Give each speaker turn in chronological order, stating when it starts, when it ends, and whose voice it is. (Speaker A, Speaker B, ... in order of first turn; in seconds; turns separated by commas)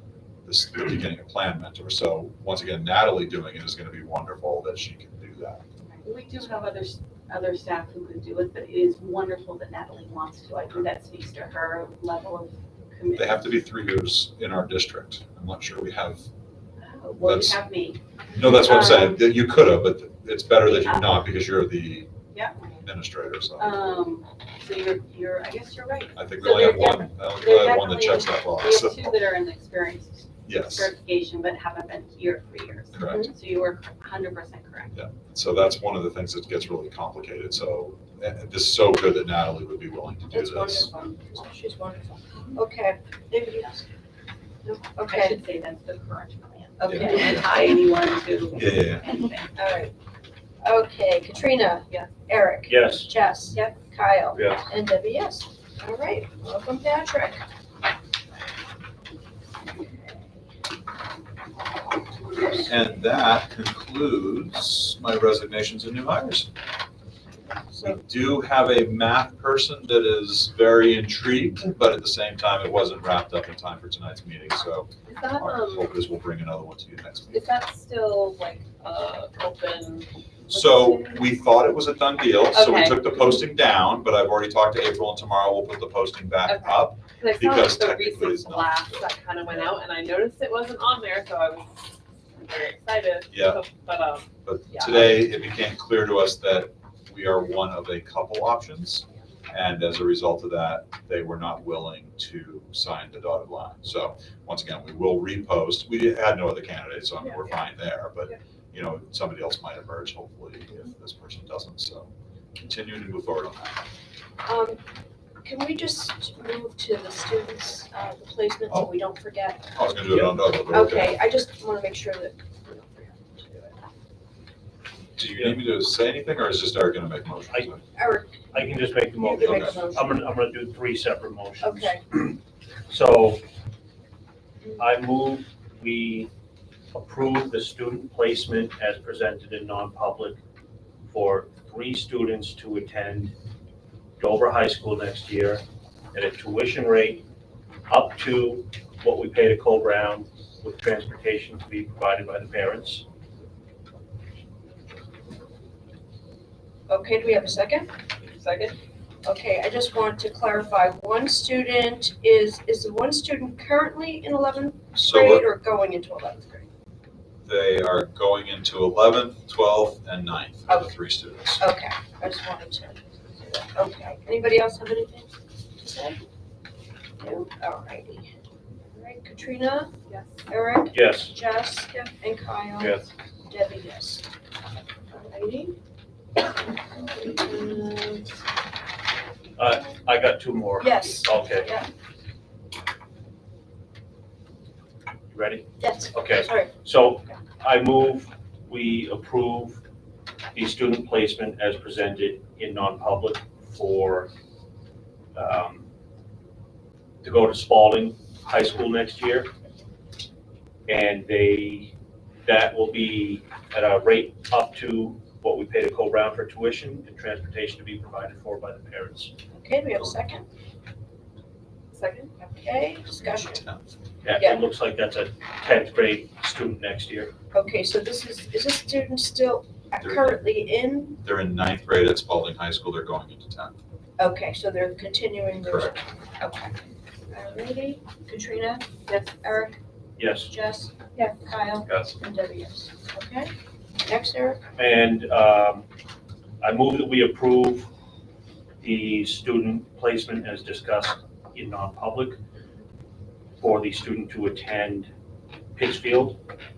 Speaker A: 0.5-5.6, Speaker B: 6.0-13.5, Speaker A: 13.2-16.3, Speaker B: 16.8-19.2, Speaker A: 17.2-17.6, Speaker A: 18.3-22.1, Speaker B: 20.7-21.3, Speaker B: 22.3-22.7, Speaker A: 22.8-23.9, Speaker B: 23.6-35.0, Speaker A: 26.2-29.2, Speaker A: 30.4-30.9, Speaker A: 32.9-33.3, Speaker C: 33.0-33.3, Speaker A: 34.9-40.9, Speaker C: 40.3-43.9, Speaker B: 44.7-49.4, Speaker C: 45.0-45.4, Speaker C: 46.8-47.4, Speaker A: 46.9-47.5, Speaker A: 48.5-49.1, Speaker C: 49.6-49.9, Speaker C: 50.6-57.4, Speaker D: 52.7-53.1, Speaker A: 62.7-66.5, Speaker A: 67.7-77.5, Speaker E: 75.1-75.9, Speaker E: 77.3-81.3, Speaker A: 80.5-89.8, Speaker E: 82.5-83.3, Speaker E: 86.5-95.2, Speaker A: 93.3-93.6, Speaker A: 94.4-113.8, Speaker C: 114.4-114.8, Speaker C: 115.4-119.8, Speaker A: 119.7-121.2, Speaker D: 120.1-120.3, Speaker C: 120.7-123.8, Speaker A: 125.2-127.8, Speaker D: 125.2-125.7, Speaker C: 128.0-130.2, Speaker D: 128.5-133.4, Speaker A: 129.4-129.8, Speaker C: 131.6-132.0, Speaker D: 134.8-136.3, Speaker D: 136.9-140.4, Speaker D: 141.1-143.3, Speaker D: 144.2-147.2, Speaker D: 147.9-153.1, Speaker C: 156.9-157.9, Speaker E: 158.3-158.8, Speaker C: 159.2-166.7, Speaker A: 164.9-165.5, Speaker A: 167.4-171.7, Speaker C: 171.6-176.2, Speaker C: 177.2-178.3, Speaker C: 178.9-180.0, Speaker C: 180.5-184.2, Speaker D: 180.9-181.3, Speaker D: 182.8-183.1, Speaker C: 185.1-185.7, Speaker C: 187.0-188.3, Speaker D: 189.6-191.7, Speaker C: 190.8-191.9, Speaker D: 195.3-199.8, Speaker C: 195.8-196.7, Speaker D: 200.5-204.3, Speaker D: 205.3-205.9, Speaker D: 207.2-209.5, Speaker D: 210.9-211.9, Speaker D: 212.4-219.3, Speaker C: 219.5-220.5, Speaker E: 221.9-222.6, Speaker C: 222.6-223.6, Speaker A: 223.2-223.9, Speaker D: 224.2-227.3, Speaker C: 224.3-224.6, Speaker C: 227.5-231.2, Speaker A: 230.0-230.6, Speaker A: 231.2-233.8, Speaker C: 234.2-236.7, Speaker A: 235.7-235.9, Speaker C: 237.3-239.8, Speaker B: 239.1-239.3, Speaker D: 240.2-240.5, Speaker C: 240.5-244.6, Speaker D: 244.8-245.9, Speaker D: 246.6-247.9, Speaker D: 248.8-252.4, Speaker D: 253.6-255.1, Speaker D: 255.8-256.4